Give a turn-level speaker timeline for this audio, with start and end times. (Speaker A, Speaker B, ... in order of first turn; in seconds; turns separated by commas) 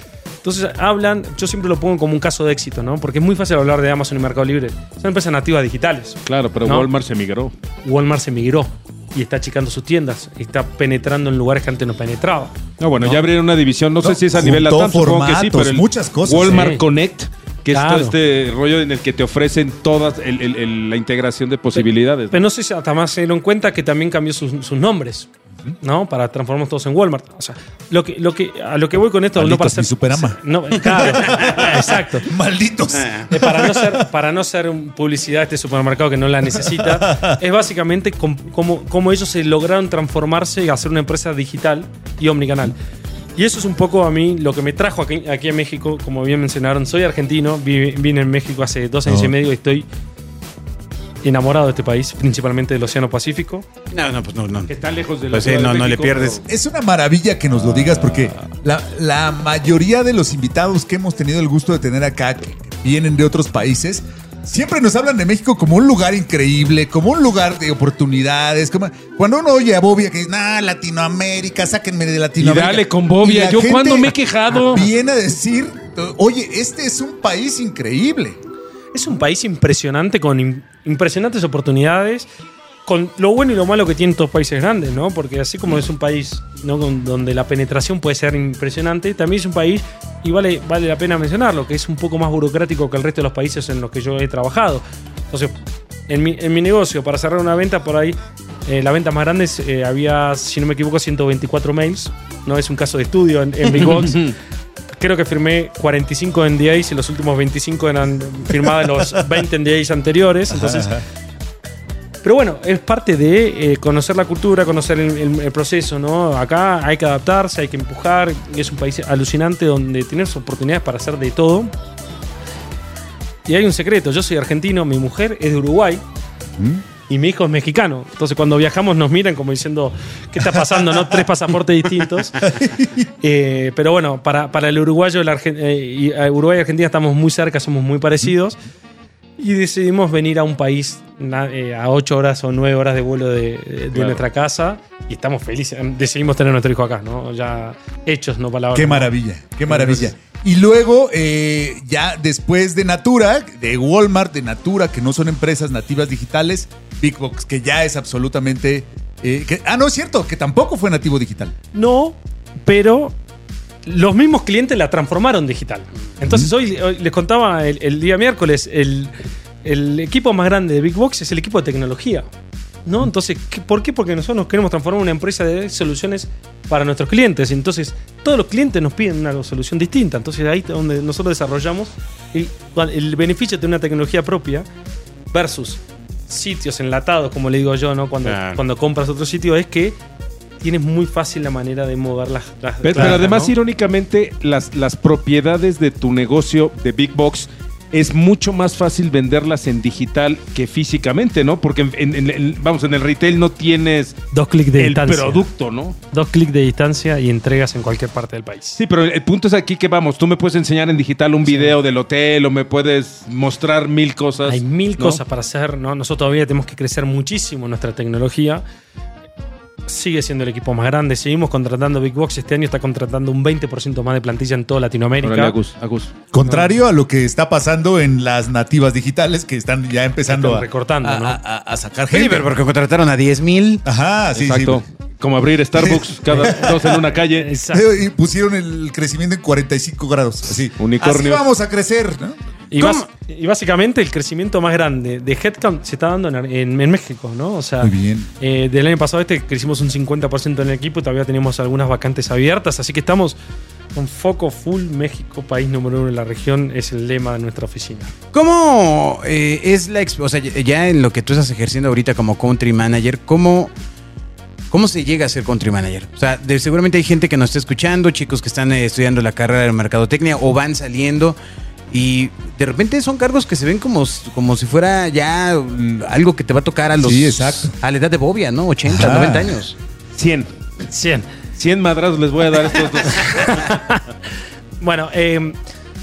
Speaker A: 0.4-6.9, Speaker B: 6.2-7.5, Speaker A: 7.8-13.2, Speaker B: 12.8-22.4, Speaker C: 14.0-16.8, Speaker A: 16.5-16.8, Speaker A: 17.7-18.2, Speaker A: 22.3-25.3, Speaker A: 25.8-32.3, Speaker C: 29.4-34.0, Speaker D: 32.9-33.2, Speaker A: 33.3-42.7, Speaker C: 36.5-37.4, Speaker A: 43.4-49.9, Speaker C: 49.0-49.3, Speaker A: 51.2-53.6, Speaker D: 53.9-54.7, Speaker B: 54.7-56.4, Speaker D: 55.3-56.4, Speaker C: 56.5-78.4, Speaker B: 72.4-74.8, Speaker A: 78.9-82.3, Speaker A: 82.8-95.5, Speaker A: 96.1-104.3, Speaker B: 103.8-104.3, Speaker A: 105.0-111.0, Speaker C: 110.5-111.0, Speaker A: 112.2-121.7, Speaker A: 123.5-126.0, Speaker A: 127.1-132.5, Speaker C: 130.4-131.1, Speaker C: 132.4-133.1, Speaker A: 133.2-138.6, Speaker A: 139.4-149.1, Speaker B: 143.9-144.2, Speaker C: 148.7-161.5, Speaker A: 149.7-150.1, Speaker A: 161.7-163.2, Speaker A: 163.8-172.2, Speaker C: 166.2-166.5, Speaker A: 172.8-184.7, Speaker A: 185.3-189.9, Speaker D: 188.2-188.6, Speaker A: 190.6-193.5, Speaker B: 192.8-204.1, Speaker A: 204.3-205.4, Speaker B: 204.8-206.0, Speaker A: 206.1-208.8, Speaker B: 208.8-215.2, Speaker A: 211.5-211.7, Speaker A: 214.4-218.6, Speaker A: 219.9-225.6, Speaker B: 225.2-226.1, Speaker C: 226.3-232.5, Speaker A: 226.4-226.8, Speaker A: 230.3-231.4, Speaker D: 232.1-233.8, Speaker C: 233.8-234.8, Speaker B: 234.3-237.5, Speaker C: 235.7-237.1, Speaker A: 237.3-237.8, Speaker C: 237.7-242.4, Speaker B: 240.8-241.4, Speaker A: 242.7-253.4, Speaker D: 242.8-243.0, Speaker C: 247.8-248.3, Speaker A: 253.9-258.1, Speaker D: 258.3-263.7, Speaker D: 264.7-271.4, Speaker D: 271.9-279.8, Speaker C: 277.0-277.7, Speaker C: 278.8-279.6, Speaker B: 280.1-280.5, Speaker A: 280.9-281.2, Speaker B: 281.6-283.3, Speaker A: 283.0-284.0, Speaker A: 284.8-285.6